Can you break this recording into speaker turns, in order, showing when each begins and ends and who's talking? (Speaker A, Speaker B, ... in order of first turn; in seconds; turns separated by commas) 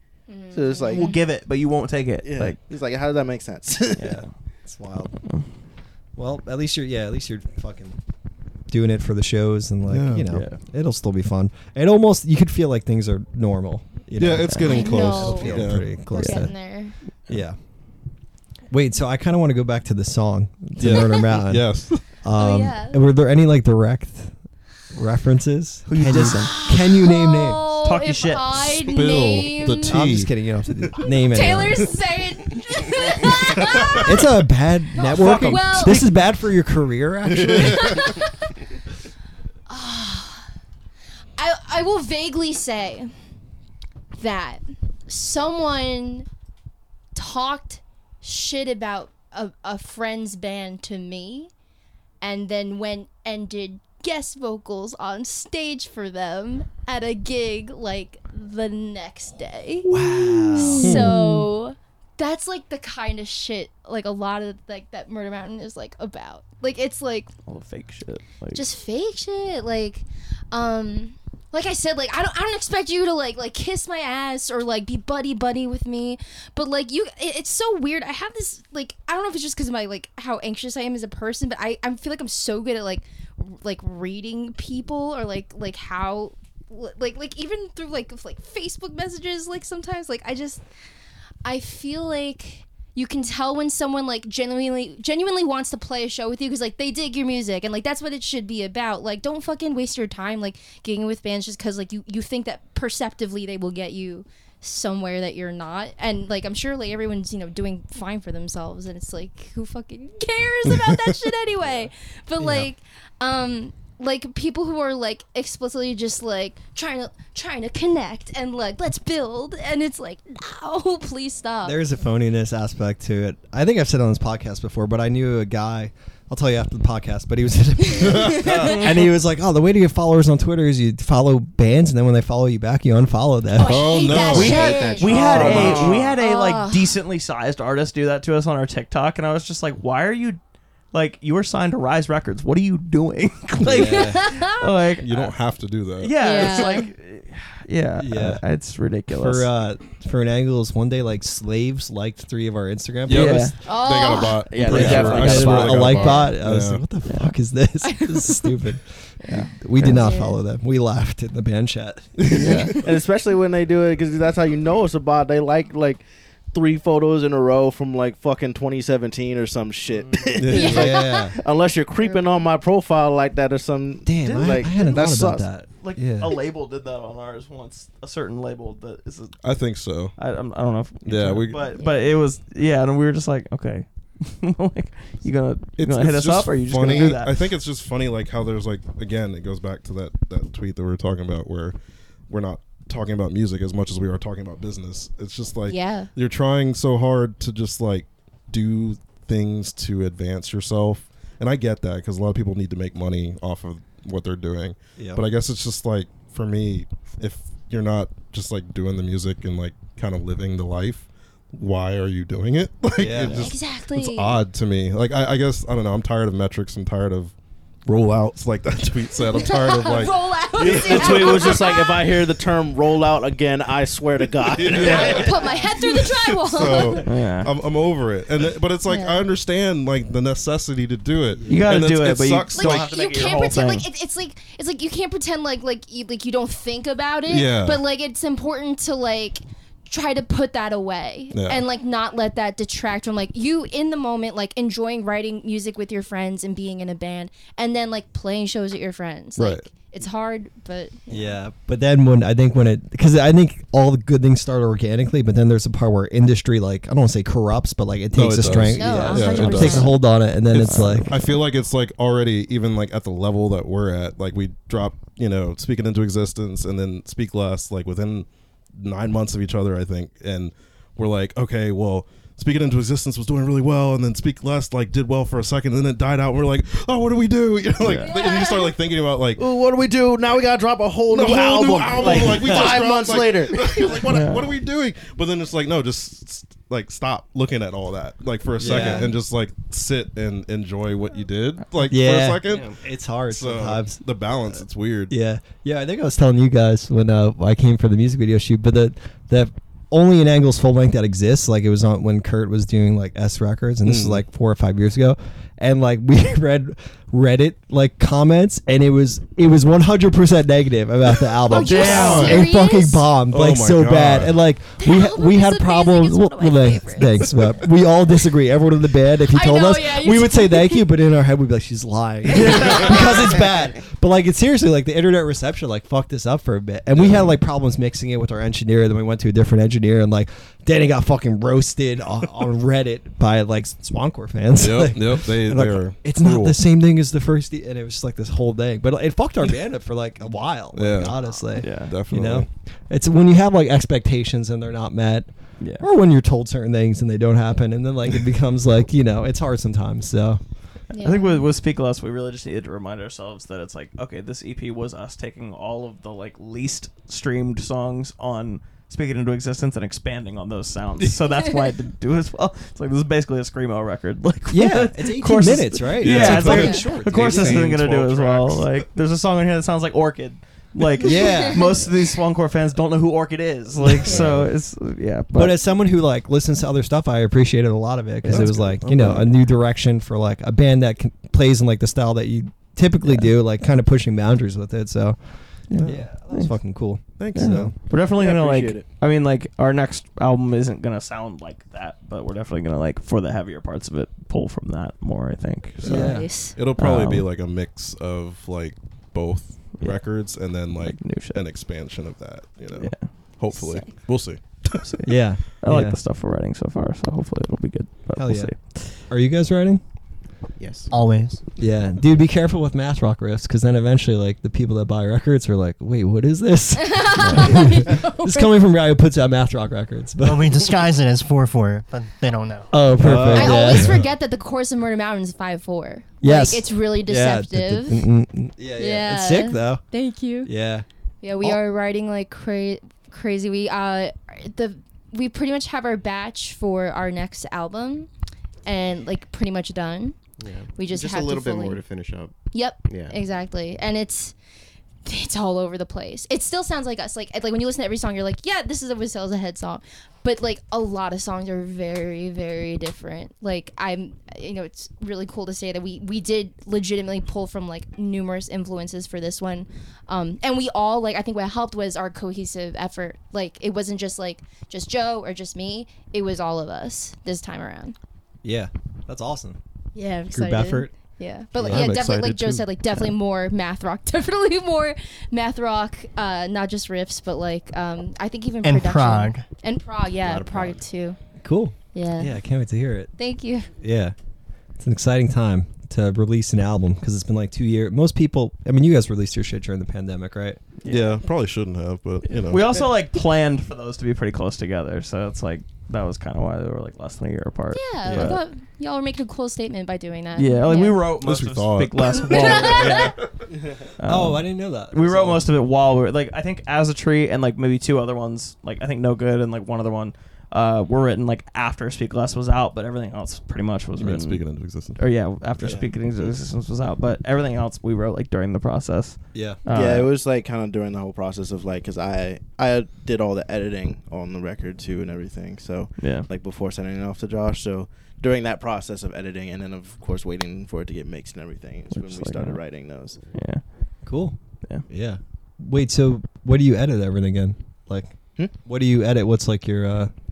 Speaker A: 0.3-1.2, Speaker B: 0.5-1.1, Speaker C: 0.9-2.6, Speaker B: 2.2-4.1, Speaker C: 4.0-4.3, Speaker D: 4.0-5.2, Speaker D: 6.2-8.0, Speaker D: 8.7-16.5, Speaker E: 9.9-10.4, Speaker C: 10.3-10.6, Speaker E: 14.2-16.0, Speaker C: 14.4-14.9, Speaker A: 14.6-16.9, Speaker C: 16.2-16.5, Speaker D: 17.3-17.6, Speaker D: 18.7-24.3, Speaker E: 20.8-22.0, Speaker A: 22.3-23.0, Speaker D: 24.9-27.6, Speaker C: 25.9-26.5, Speaker A: 26.4-30.0, Speaker C: 27.8-28.9, Speaker E: 28.9-30.3, Speaker D: 29.8-31.9, Speaker A: 31.2-34.2, Speaker E: 33.6-33.9, Speaker D: 34.0-38.1, Speaker A: 35.0-36.0, Speaker C: 35.1-36.1, Speaker E: 37.3-38.2, Speaker A: 37.6-38.5, Speaker A: 39.7-40.5, Speaker A: 41.4-43.1, Speaker A: 44.1-46.3, Speaker A: 47.1-51.5, Speaker A: 52.2-59.9, Speaker C: 59.9-61.4, Speaker D: 59.9-61.1, Speaker A: 60.5-67.3, Speaker E: 60.8-61.1, Speaker C: 67.5-68.6, Speaker A: 68.5-90.6, Speaker A: 91.4-121.8, Speaker D: 112.4-112.7, Speaker D: 121.6-135.8, Speaker A: 128.0-128.8, Speaker E: 128.0-128.8, Speaker C: 128.7-129.0, Speaker A: 133.6-136.9, Speaker E: 133.6-135.9, Speaker C: 134.3-140.4, Speaker B: 135.1-136.0, Speaker C: 140.9-145.3, Speaker D: 143.6-144.2, Speaker A: 143.8-144.6, Speaker E: 145.0-146.8, Speaker C: 146.0-149.5, Speaker A: 146.2-146.9, Speaker D: 148.0-148.4, Speaker D: 149.1-153.5, Speaker E: 153.1-156.8, Speaker C: 153.1-153.6, Speaker A: 153.6-154.4, Speaker B: 154.5-156.0, Speaker C: 154.6-155.8, Speaker D: 154.6-162.7, Speaker A: 155.9-156.3, Speaker C: 157.1-157.3, Speaker A: 157.8-158.5, Speaker C: 159.2-160.0, Speaker A: 159.8-160.4, Speaker E: 162.2-162.8, Speaker C: 162.3-162.7, Speaker B: 162.8-175.5, Speaker C: 169.9-170.3, Speaker E: 170.4-170.9, Speaker A: 170.5-171.3, Speaker D: 170.6-171.4, Speaker D: 174.0-176.3, Speaker C: 174.3-174.8, Speaker C: 175.8-179.4, Speaker E: 179.4-180.1, Speaker C: 180.2-187.4, Speaker E: 181.0-181.7, Speaker A: 181.8-182.0, Speaker E: 185.8-191.8, Speaker E: 192.3-217.3, Speaker A: 195.7-196.1, Speaker D: 205.0-205.2, Speaker D: 213.0-213.5, Speaker A: 213.3-214.4, Speaker E: 217.8-221.7, Speaker A: 219.3-222.0, Speaker B: 220.6-225.3, Speaker E: 224.4-232.9, Speaker A: 224.8-227.0, Speaker C: 224.8-225.1, Speaker C: 227.0-227.5, Speaker A: 228.8-229.2, Speaker D: 231.3-231.8, Speaker C: 231.5-233.8, Speaker A: 232.5-251.4, Speaker E: 237.3-237.8, Speaker E: 241.3-241.6, Speaker E: 249.4-249.7, Speaker D: 251.1-261.2, Speaker E: 258.1-259.9, Speaker A: 258.7-260.0, Speaker E: 260.5-279.4, Speaker C: 277.8-278.2, Speaker A: 278.0-278.7, Speaker B: 279.4-284.1, Speaker E: 281.1-292.7, Speaker C: 282.1-282.3, Speaker C: 284.1-284.5, Speaker D: 288.6-289.1, Speaker D: 291.9-294.0, Speaker F: 292.4-292.8, Speaker E: 293.3-295.1, Speaker D: 295.1-350.4, Speaker E: 303.8-304.2, Speaker A: 311.5-313.1, Speaker C: 311.6-312.4, Speaker E: 311.6-312.4, Speaker E: 313.3-314.4, Speaker A: 314.8-317.7, Speaker A: 319.3-320.9, Speaker A: 322.3-323.0, Speaker E: 326.9-327.3, Speaker E: 334.6-336.6, Speaker E: 340.7-341.2, Speaker C: 341.6-341.9, Speaker E: 341.8-342.5, Speaker A: 350.9-351.4, Speaker C: 351.0-375.6, Speaker D: 364.5-367.7, Speaker E: 366.0-368.8, Speaker A: 366.5-366.8, Speaker D: 371.0-371.8, Speaker A: 371.1-371.6, Speaker D: 373.8-374.5, Speaker D: 375.3-385.2, Speaker C: 378.2-378.6, Speaker E: 378.3-379.2, Speaker C: 385.7-386.6, Speaker E: 385.7-386.0, Speaker D: 385.8-387.7, Speaker E: 387.2-387.8, Speaker C: 387.3-397.2, Speaker B: 388.1-388.9, Speaker D: 395.8-396.3, Speaker A: 395.8-396.6, Speaker E: 396.4-404.9, Speaker C: 400.8-401.4, Speaker C: 402.8-403.1, Speaker A: 403.5-403.9, Speaker C: 404.8-408.9, Speaker D: 405.0-406.0, Speaker D: 408.1-409.8, Speaker F: 410.6-410.9, Speaker G: 410.9-411.4, Speaker D: 411.6-420.6, Speaker A: 416.8-418.5, Speaker C: 417.2-417.6, Speaker G: 420.2-422.8, Speaker D: 422.7-424.0, Speaker E: 423.0-423.7, Speaker A: 423.3-428.0, Speaker D: 426.2-429.8, Speaker A: 428.8-430.5, Speaker D: 430.4-430.9, Speaker A: 431.2-438.1, Speaker A: 438.6-440.1, Speaker F: 440.4-443.2, Speaker A: 440.7-441.8, Speaker A: 442.5-444.3, Speaker A: 445.0-467.9, Speaker D: 468.4-469.6, Speaker A: 469.9-481.2, Speaker D: 470.3-470.9, Speaker E: 471.6-472.7, Speaker D: 471.6-472.0, Speaker G: 478.6-479.4, Speaker D: 480.2-480.8, Speaker D: 481.4-483.1, Speaker A: 481.9-482.4, Speaker A: 483.2-483.7, Speaker D: 483.8-484.1, Speaker D: 484.8-490.6, Speaker C: 490.8-491.2, Speaker E: 490.9-492.7, Speaker C: 492.4-498.4, Speaker A: 497.7-501.0, Speaker D: 498.1-498.4, Speaker C: 500.4-503.2, Speaker E: 501.2-503.3, Speaker A: 502.1-503.1, Speaker C: 504.0-520.1, Speaker D: 504.0-505.4, Speaker E: 514.0-515.0, Speaker D: 519.3-519.6, Speaker B: 519.7-533.2, Speaker C: 526.0-526.3, Speaker C: 531.9-532.6, Speaker C: 533.3-533.6, Speaker D: 534.0-534.4, Speaker D: 534.9-540.1